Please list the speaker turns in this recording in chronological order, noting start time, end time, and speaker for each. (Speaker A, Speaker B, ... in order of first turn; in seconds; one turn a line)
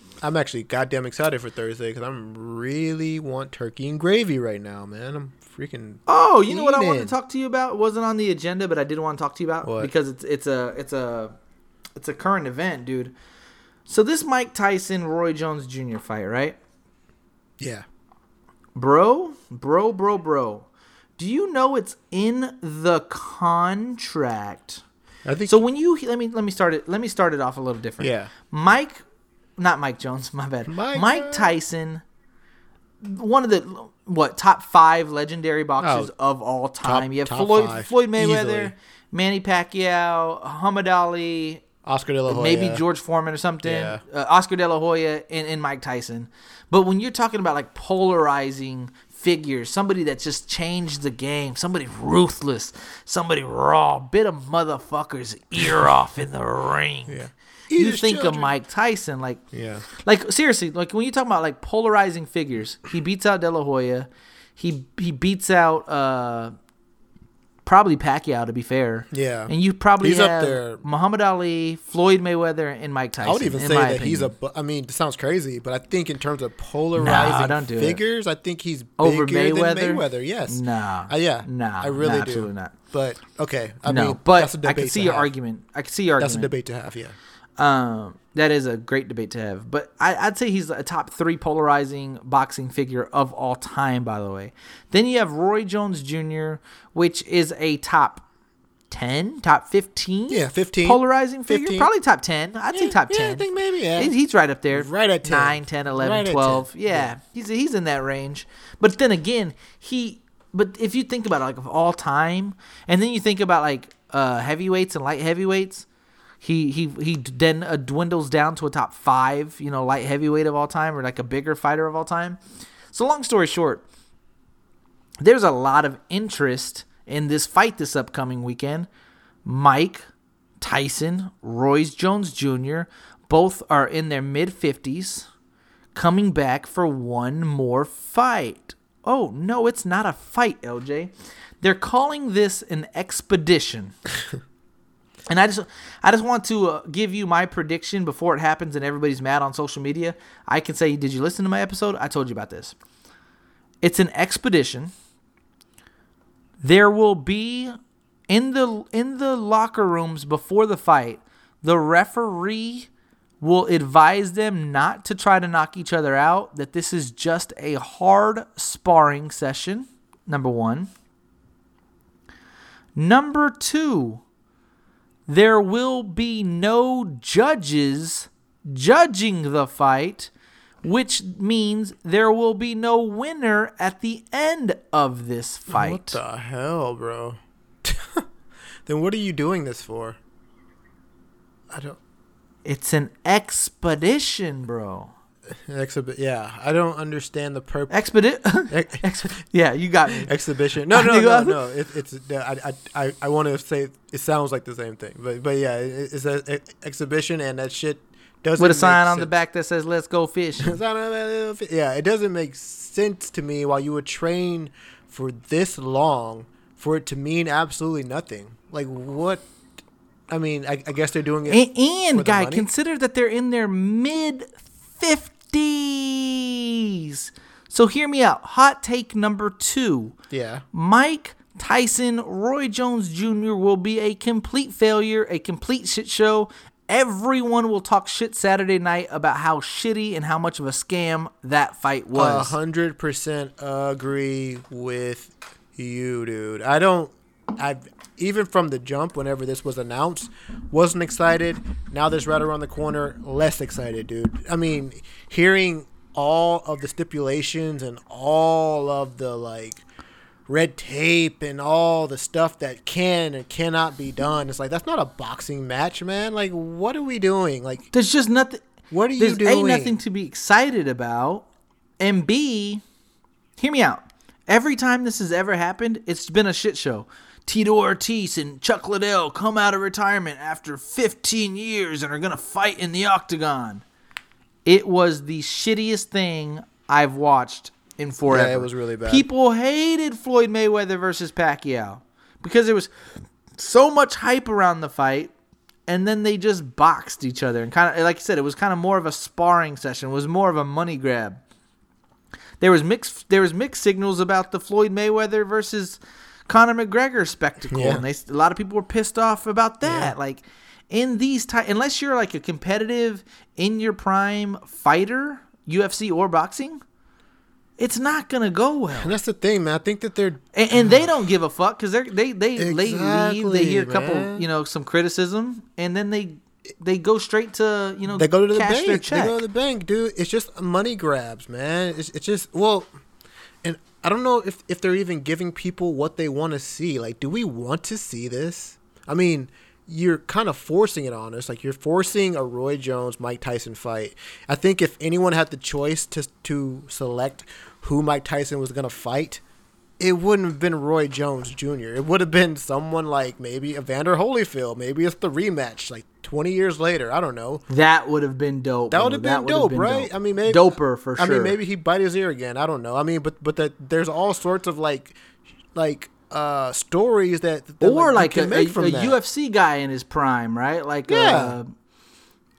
Speaker A: 0.2-7.1
Speaker B: 6.1-11.3
Speaker A: 9.6-9.9
Speaker B: 11.9-13.1
Speaker B: 13.9-16.6
Speaker A: 17.6-17.8
Speaker B: 18.8-20.7
Speaker B: 21.2-24.8
Speaker A: 25.2-25.6
Speaker B: 25.5-29.0
Speaker A: 28.0-28.3
Speaker B: 29.6-32.0
Speaker A: 30.7-31.5
Speaker B: 33.0-41.6
Speaker A: 35.8-36.1
Speaker A: 36.8-38.7
Speaker A: 41.8-42.8
Speaker B: 42.3-57.2
Speaker A: 43.6-44.0
Speaker A: 57.1-58.5
Speaker B: 57.8-66.5
Speaker A: 59.5-59.8
Speaker B: 67.6-74.3
Speaker A: 69.1-70.8
Speaker A: 73.2-85.3
Speaker B: 77.0-78.0
Speaker B: 79.0-82.7
Speaker B: 83.8-86.5
Speaker A: 86.2-87.2
Speaker B: 87.6-98.2
Speaker B: 98.9-115.8
Speaker A: 100.3-101.9
Speaker A: 102.7-104.1
Speaker A: 104.7-107.1
Speaker B: 116.4-122.4
Speaker B: 122.9-123.8
Speaker B: 125.2-128.9
Speaker B: 129.4-130.1
Speaker B: 130.6-135.3
Speaker B: 135.9-143.9
Speaker B: 145.3-152.7
Speaker B: 153.8-154.9
Speaker B: 156.6-157.8
Speaker B: 158.3-162.9
Speaker B: 163.4-170.9
Speaker B: 172.9-174.2
Speaker B: 175.3-180.3
Speaker B: 180.8-186.2
Speaker A: 185.7-188.2
Speaker A: 188.8-190.2
Speaker A: 191.7-192.0
Speaker B: 192.6-195.1
Speaker A: 195.5-198.0
Speaker B: 197.9-200.3
Speaker A: 198.7-199.0
Speaker A: 200.2-209.3
Speaker B: 200.9-201.6
Speaker B: 208.6-210.8
Speaker A: 210.6-219.5
Speaker A: 220.3-222.7
Speaker B: 221.5-230.2
Speaker A: 230.3-230.6
Speaker B: 230.7-242.5
Speaker A: 242.1-259.8
Speaker A: 260.5-267.9
Speaker B: 267.9-268.6
Speaker A: 268.9-270.0
Speaker B: 269.2-271.4
Speaker B: 272.0-272.8
Speaker B: 273.6-283.8
Speaker B: 284.6-292.9
Speaker A: 288.3-289.3
Speaker B: 293.6-295.3
Speaker B: 295.9-301.4
Speaker B: 302.6-316.8
Speaker A: 307.7-308.0
Speaker A: 309.8-310.1
Speaker B: 317.8-319.1
Speaker A: 319.0-321.1
Speaker B: 320.5-329.4
Speaker A: 322.6-324.4
Speaker A: 328.1-332.9
Speaker A: 333.6-349.4
Speaker A: 350.0-357.6
Speaker B: 357.7-361.6
Speaker A: 358.9-365.2
Speaker A: 365.7-369.2
Speaker B: 367.8-371.7
Speaker A: 371.1-371.6